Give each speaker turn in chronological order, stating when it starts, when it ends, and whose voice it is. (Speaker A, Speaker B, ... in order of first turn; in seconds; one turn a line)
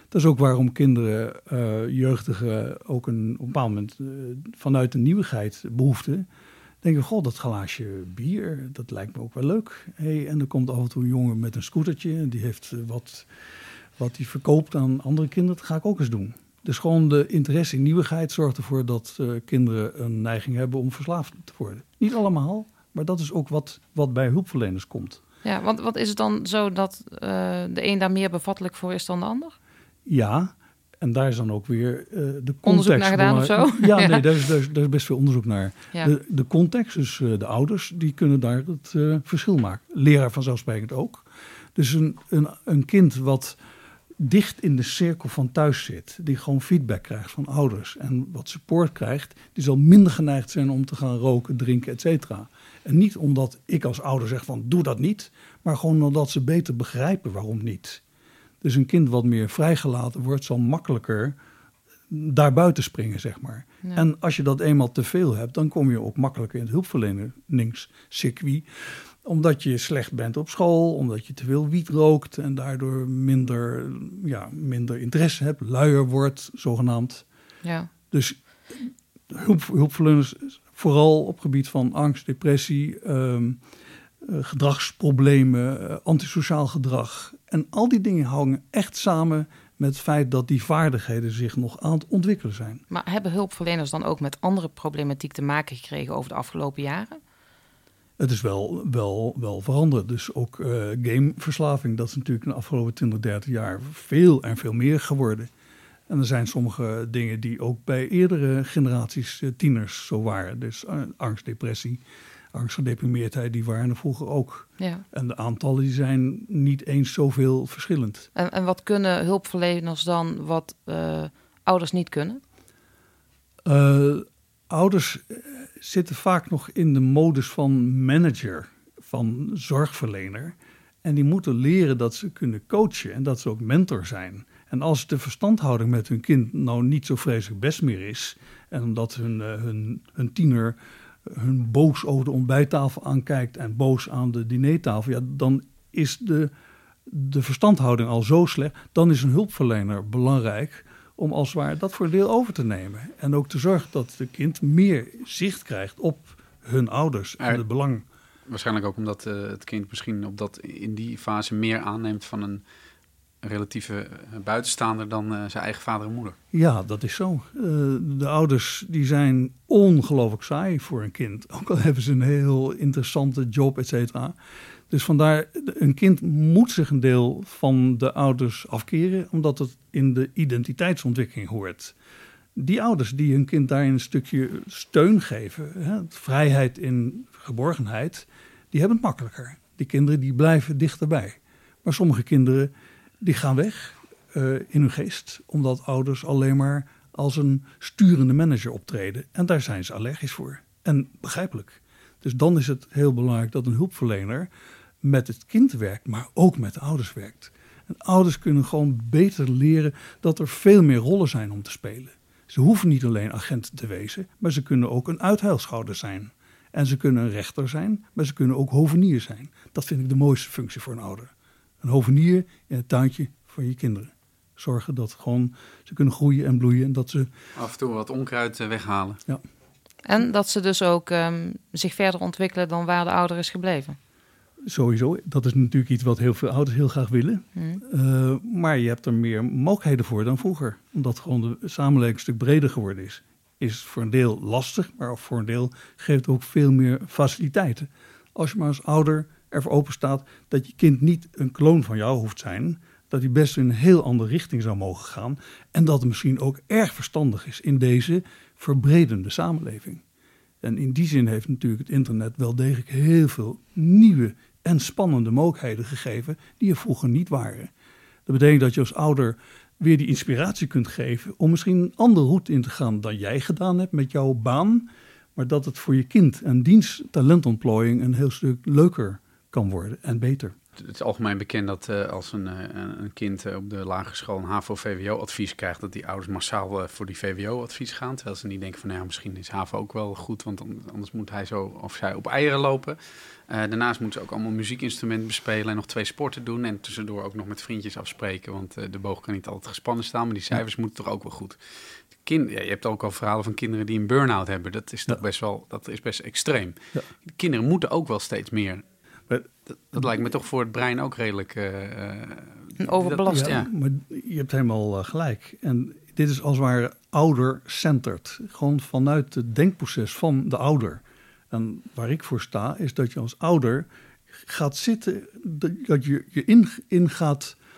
Speaker A: 0.1-6.3
Speaker A: 6.8-13.3
Speaker A: 14.0-25.2
Speaker B: 25.4-29.6
Speaker A: 30.1-43.6
Speaker B: 32.7-34.3
Speaker A: 44.2-58.0
Speaker A: 58.6-61.4
Speaker A: 62.1-77.2
Speaker B: 77.6-77.9
Speaker A: 78.1-83.6
Speaker A: 84.2-92.8
Speaker B: 92.9-97.2
Speaker A: 98.2-105.5
Speaker A: 106.1-112.0
Speaker A: 112.5-118.3
Speaker B: 114.8-115.0
Speaker B: 118.3-122.4
Speaker A: 123.7-146.5
Speaker A: 147.1-158.1
Speaker C: 158.5-162.6
Speaker C: 163.4-166.4
Speaker A: 166.5-174.3
Speaker A: 174.9-181.9
Speaker A: 182.6-204.5
Speaker A: 205.0-221.3
Speaker A: 221.8-227.3
Speaker C: 227.6-229.2
Speaker B: 230.1-234.0
Speaker A: 234.7-260.0
Speaker B: 237.6-237.8
Speaker A: 260.6-267.7
Speaker A: 268.3-280.6
Speaker C: 280.8-293.0
Speaker C: 293.5-301.6
Speaker C: 302.2-308.8
Speaker A: 309.3-310.0
Speaker C: 309.9-313.7
Speaker B: 312.8-313.6
Speaker A: 313.3-323.9
Speaker A: 324.5-327.6